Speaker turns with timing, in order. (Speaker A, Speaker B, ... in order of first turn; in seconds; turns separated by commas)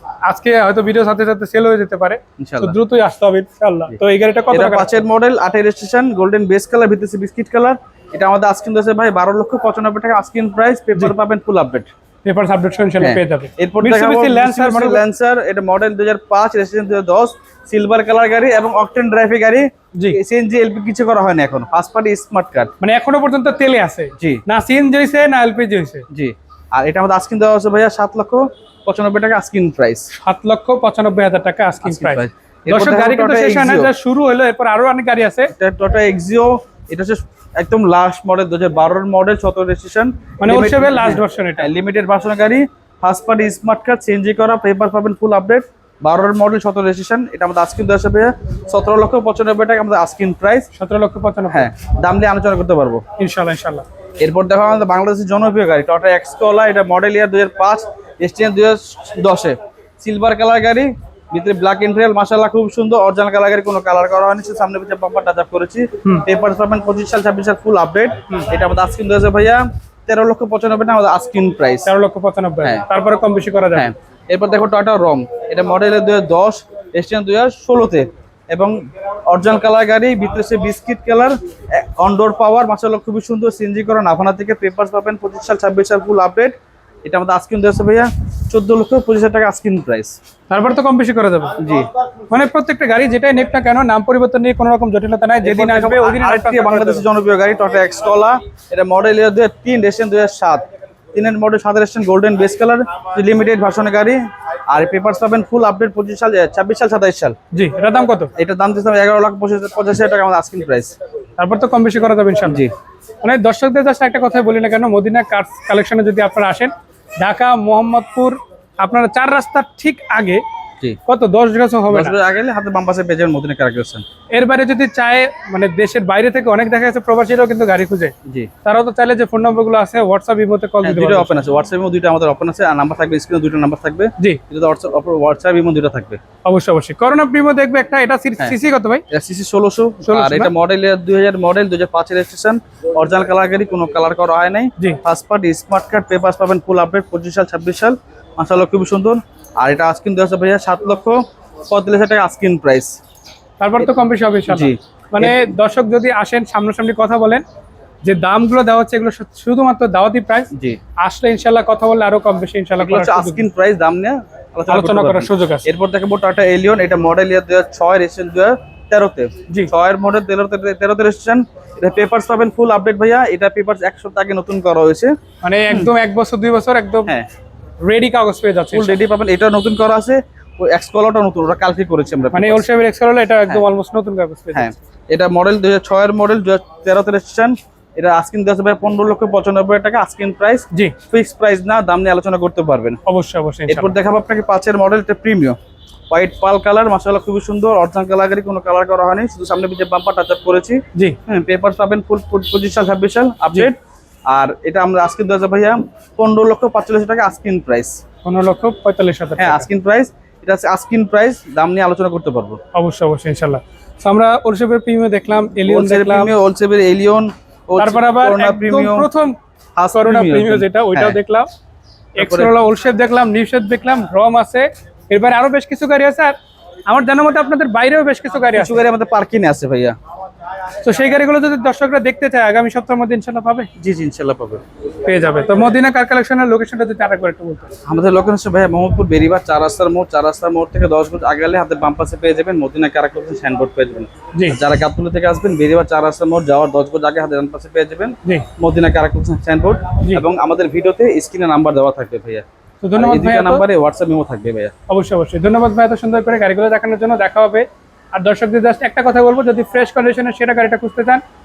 Speaker A: 0.3-4.9, Speaker B: 2.4-2.8, Speaker B: 4.5-11.9, Speaker A: 12.2-15.0, Speaker B: 13.0-22.7, Speaker A: 22.8-26.0, Speaker B: 26.1-30.1, Speaker A: 30.1-35.5, Speaker B: 31.8-33.9, Speaker B: 35.5-50.7, Speaker A: 40.4-41.7, Speaker A: 50.7-51.7, Speaker B: 51.5-53.0, Speaker A: 53.2-53.8, Speaker B: 54.2-71.9, Speaker A: 71.8-73.9, Speaker B: 73.7-78.8, Speaker B: 79.3-86.5, Speaker B: 87.0-90.1, Speaker A: 90.5-91.5, Speaker B: 91.6-91.9, Speaker A: 92.3-97.0, Speaker B: 95.4-107.3, Speaker A: 107.5-108.3, Speaker B: 108.3-110.9, Speaker A: 111.4-112.7, Speaker A: 113.2-120.4, Speaker A: 121.0-122.2, Speaker B: 121.9-124.0, Speaker A: 124.3-128.1, Speaker A: 128.6-131.4, Speaker B: 130.8-136.2, Speaker A: 136.4-139.0, Speaker B: 139.1-151.2, Speaker A: 140.0-140.5, Speaker B: 151.7-152.9, Speaker A: 153.6-157.4, Speaker B: 154.5-155.4, Speaker A: 158.0-163.4, Speaker B: 160.5-160.8, Speaker B: 162.8-175.1, Speaker A: 164.7-165.7, Speaker A: 175.4-177.1, Speaker A: 177.8-179.0, Speaker B: 178.7-182.6, Speaker A: 182.3-184.7, Speaker B: 184.5-193.0, Speaker A: 193.1-193.9, Speaker B: 193.7-195.6, Speaker B: 196.1-203.8, Speaker B: 204.3-207.9, Speaker A: 208.2-209.7, Speaker B: 209.4-212.6, Speaker A: 212.7-216.3, Speaker B: 215.7-219.1, Speaker A: 217.8-219.3, Speaker B: 219.8-221.2, Speaker A: 219.9-221.5, Speaker A: 222.2-226.3, Speaker B: 222.2-222.5, Speaker A: 226.9-228.8, Speaker B: 228.5-229.9, Speaker A: 230.8-233.7, Speaker B: 233.8-234.6, Speaker A: 235.0-237.7, Speaker B: 237.8-252.4, Speaker A: 252.8-253.6, Speaker B: 252.9-254.7, Speaker A: 254.9-261.2